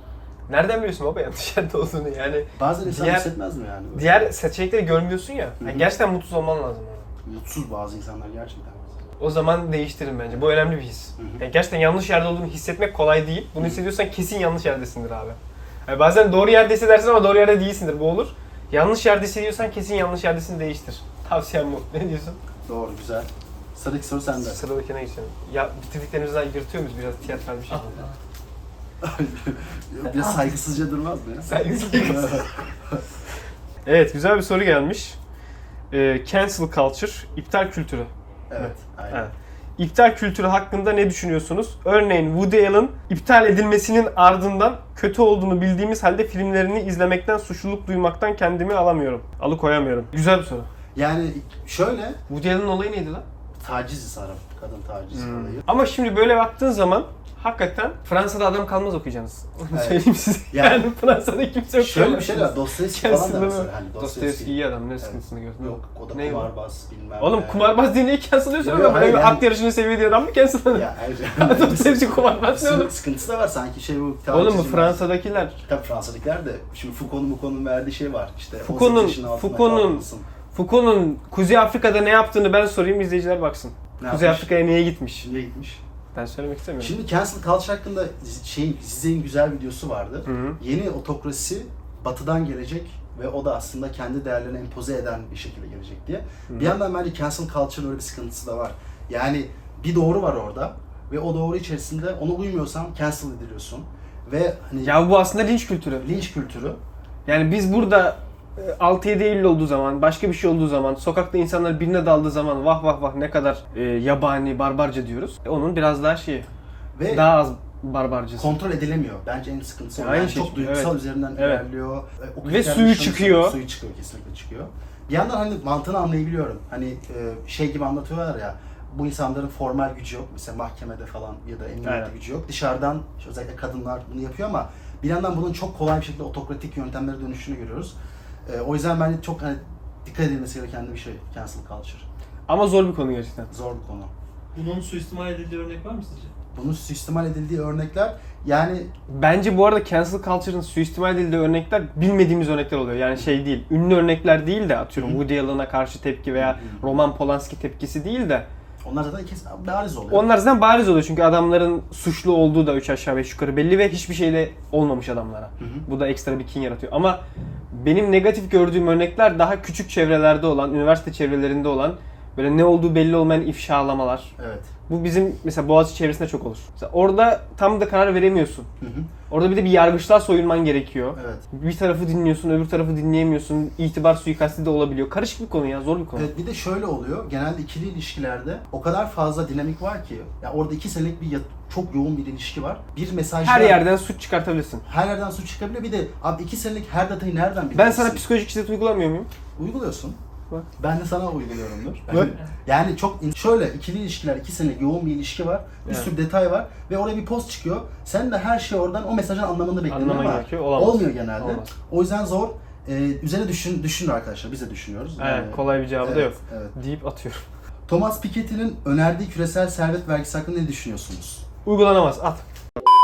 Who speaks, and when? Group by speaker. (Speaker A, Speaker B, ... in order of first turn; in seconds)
Speaker A: 0.5-3.3, 3.9-7.1, 9.2-22.4, 24.4-28.1, 31.5-32.4, 33.9-35.2, 35.9-50.7, 52.3-53.2, 55.1-66.5, 67.2-72.9, 74.3-75.6, 78.6-85.3, 86.2-86.9, 90.3-90.6, 96.5-96.8, 104.8-106.1, 107.3-116.5, 117.1-118.5, 120.0-121.6, 122.4-123.6, 131.8-132.1, 142.5-143.5, 149.1-158.5, 160.1-167.2, 167.7-174.3, 174.9-178.7, 179.3-186.3, 193.4-194.8, 197.7-199.3, 202.1-202.3, 209.9-211.7, 215.2-217.4, 221.7-222.5
Speaker B: 2.5-4.3, 5.6-5.9, 7.2-8.9, 11.2-11.4, 13.6-13.8, 22.7-24.6, 29.0-33.0, 38.5-39.3, 51.0-52.2, 53.6-55.7, 59.7-60.9, 61.8-67.8, 68.6-69.5, 70.7-75.0, 75.6-80.3, 84.0-84.5, 85.2-85.8, 86.8-105.0, 106.0-106.8, 117.0-117.4, 118.4-137.9, 138.5-142.1, 143.5-144.1, 146.6-148.9, 155.0-155.2, 156.3-157.0, 158.8-160.3, 165.6-165.9, 174.4-174.7, 178.8-179.1, 181.2-181.4, 186.2-193.8, 194.8-198.2, 199.6-200.2, 200.8-216.7, 217.9-221.4
Speaker C: 27.7-28.2, 144.5-146.3, 202.2-202.5